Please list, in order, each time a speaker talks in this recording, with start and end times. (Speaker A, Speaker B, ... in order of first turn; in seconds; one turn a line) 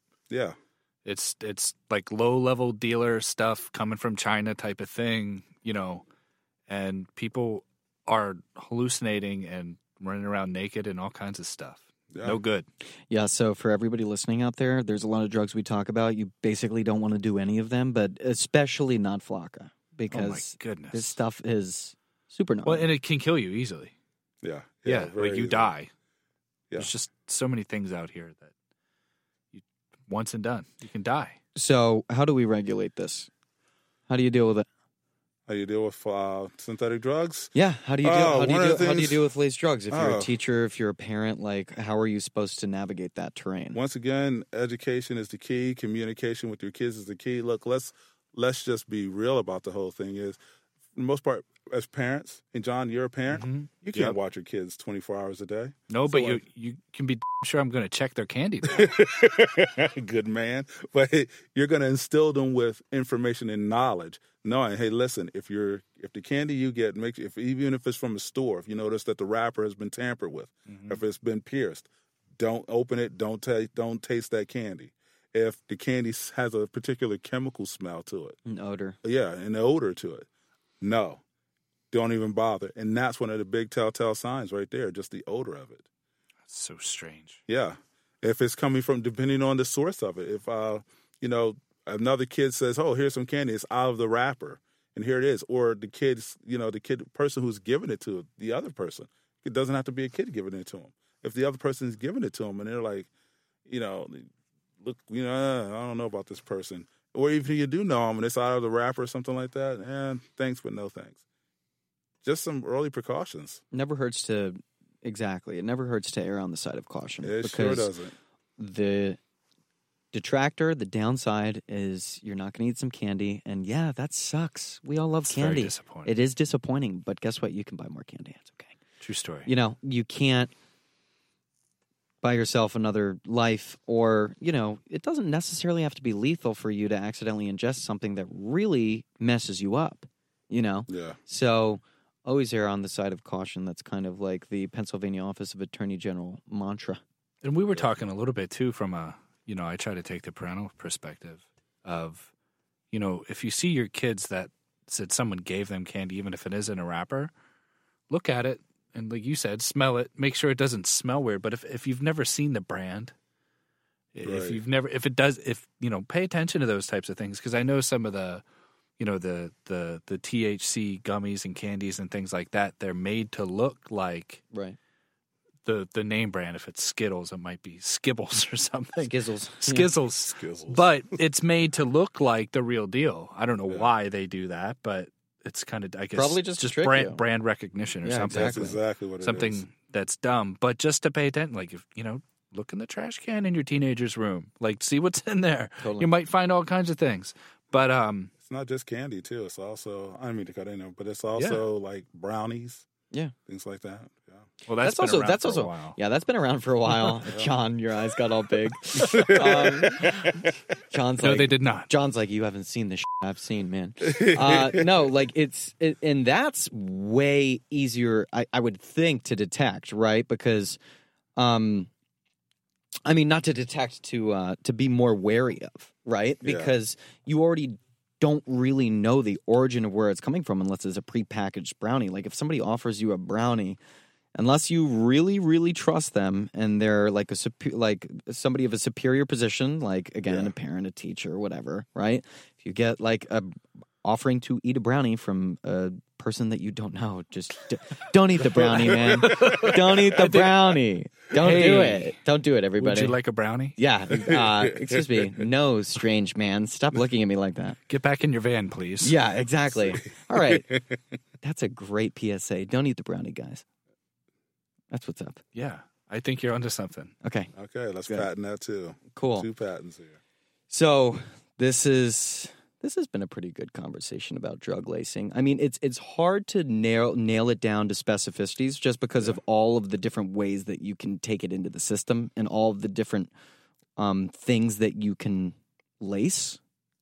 Speaker A: 0.3-0.6
Speaker B: 1.1-6.0
Speaker B: 6.7-12.7
Speaker A: 12.1-12.4
Speaker C: 13.1-22.9
Speaker B: 20.1-21.2
Speaker B: 22.6-23.9
Speaker A: 24.4-25.7
Speaker B: 24.9-25.9
Speaker B: 26.8-28.5
Speaker B: 29.5-31.4
Speaker C: 31.6-33.3
Speaker C: 34.1-34.7
Speaker A: 35.5-39.2
Speaker C: 37.5-43.8
Speaker A: 39.9-40.3
Speaker A: 43.7-50.4
Speaker A: 50.9-56.4
Speaker B: 53.3-54.1
Speaker B: 55.9-58.9
Speaker A: 58.6-78.4
Speaker B: 70.7-71.0
Speaker C: 78.5-79.0
Speaker A: 79.0-80.3
Speaker A: 80.8-81.2
Speaker A: 81.9-85.9
Speaker B: 86.5-87.4
Speaker A: 87.5-103.1
Speaker A: 103.7-111.2
Speaker A: 112.2-113.6
Speaker C: 113.7-117.9
Speaker A: 117.2-118.2
Speaker C: 118.6-119.2
Speaker C: 120.1-128.7
Speaker B: 125.3-126.1
Speaker B: 129.0-129.5
Speaker C: 129.5-130.5
Speaker C: 132.2-147.0
Speaker A: 140.9-141.2
Speaker B: 147.4-152.3
Speaker B: 152.9-157.3
Speaker B: 158.1-163.2
Speaker B: 164.2-168.4
Speaker A: 164.2-164.6
Speaker B: 169.0-174.4
Speaker C: 174.5-174.8
Speaker B: 175.7-198.3
Speaker C: 179.0-179.9
Speaker A: 180.3-181.2
Speaker C: 186.2-187.2
Speaker C: 188.0-188.8
Speaker A: 188.3-189.7
Speaker C: 195.8-196.1
Speaker A: 198.4-202.9
Speaker B: 201.4-201.6
Speaker A: 203.5-204.5
Speaker B: 204.7-206.0
Speaker C: 204.8-210.3
Speaker A: 208.9-210.5
Speaker C: 210.9-220.8
Speaker B: 211.2-211.9
Speaker A: 214.1-214.9
Speaker C: 221.4-221.9
Speaker C: 223.1-233.8
Speaker A: 226.4-226.7
Speaker C: 234.3-253.2
Speaker A: 240.3-240.5
Speaker A: 248.6-249.7
Speaker B: 248.9-250.8
Speaker B: 251.3-252.2
Speaker B: 252.8-253.8
Speaker C: 253.8-257.8
Speaker A: 254.2-255.2
Speaker B: 257.9-259.1
Speaker C: 259.0-260.7
Speaker A: 260.3-260.8
Speaker C: 261.4-263.6
Speaker C: 264.9-265.4
Speaker B: 265.5-267.1
Speaker C: 267.2-267.5
Speaker A: 267.6-270.2
Speaker C: 269.1-269.5
Speaker C: 270.7-283.3
Speaker C: 284.0-286.6